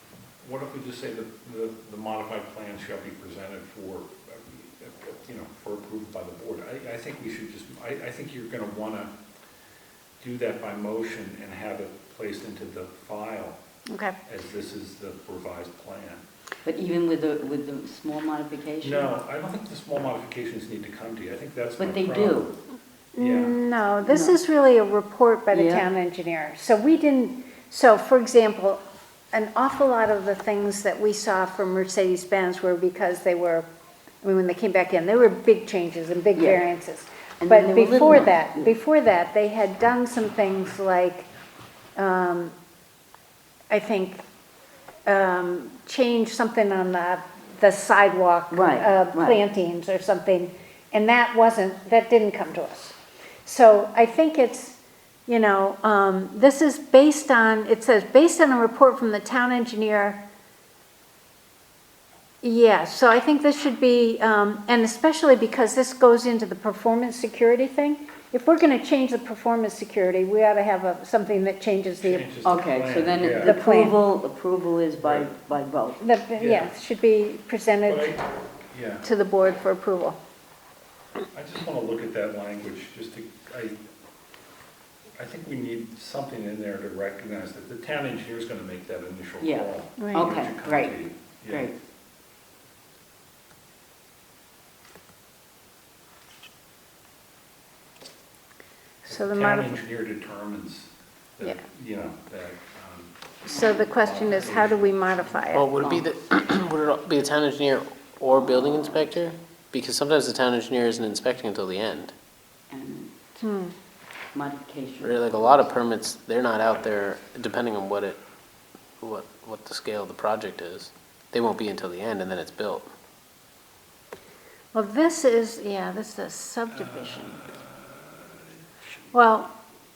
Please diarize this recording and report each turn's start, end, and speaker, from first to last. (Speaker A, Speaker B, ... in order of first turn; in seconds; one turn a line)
Speaker A: 0.4-9.1
Speaker A: 10.2-13.6
Speaker B: 13.9-14.2
Speaker A: 14.3-16.2
Speaker C: 16.6-19.1
Speaker A: 18.8-22.6
Speaker C: 21.8-22.5
Speaker B: 23.2-33.7
Speaker A: 23.2-23.6
Speaker C: 24.1-24.4
Speaker C: 25.5-25.9
Speaker B: 34.2-41.3
Speaker C: 36.4-36.6
Speaker C: 37.4-38.7
Speaker B: 42.0-42.5
Speaker B: 43.7-44.2
Speaker B: 45.1-60.2
Speaker C: 48.5-49.4
Speaker B: 62.4-72.3
Speaker A: 72.0-73.5
Speaker C: 72.4-76.0
Speaker B: 73.4-74.0
Speaker A: 75.0-75.3
Speaker B: 76.0-78.2
Speaker A: 76.4-76.7
Speaker A: 77.9-79.0
Speaker B: 79.0-80.2
Speaker A: 81.3-83.8
Speaker A: 85.2-91.7
Speaker C: 89.4-91.8
Speaker B: 90.0-90.3
Speaker B: 99.0-99.8
Speaker A: 99.1-105.4
Speaker B: 103.5-105.7
Speaker D: 105.5-112.1
Speaker C: 105.8-106.1
Speaker C: 108.3-109.2
Speaker C: 112.7-113.4
Speaker B: 113.4-113.7
Speaker C: 114.3-115.7
Speaker D: 115.0-118.2
Speaker D: 119.0-122.9
Speaker B: 124.7-127.5
Speaker A: 126.9-127.4
Speaker B: 129.1-129.5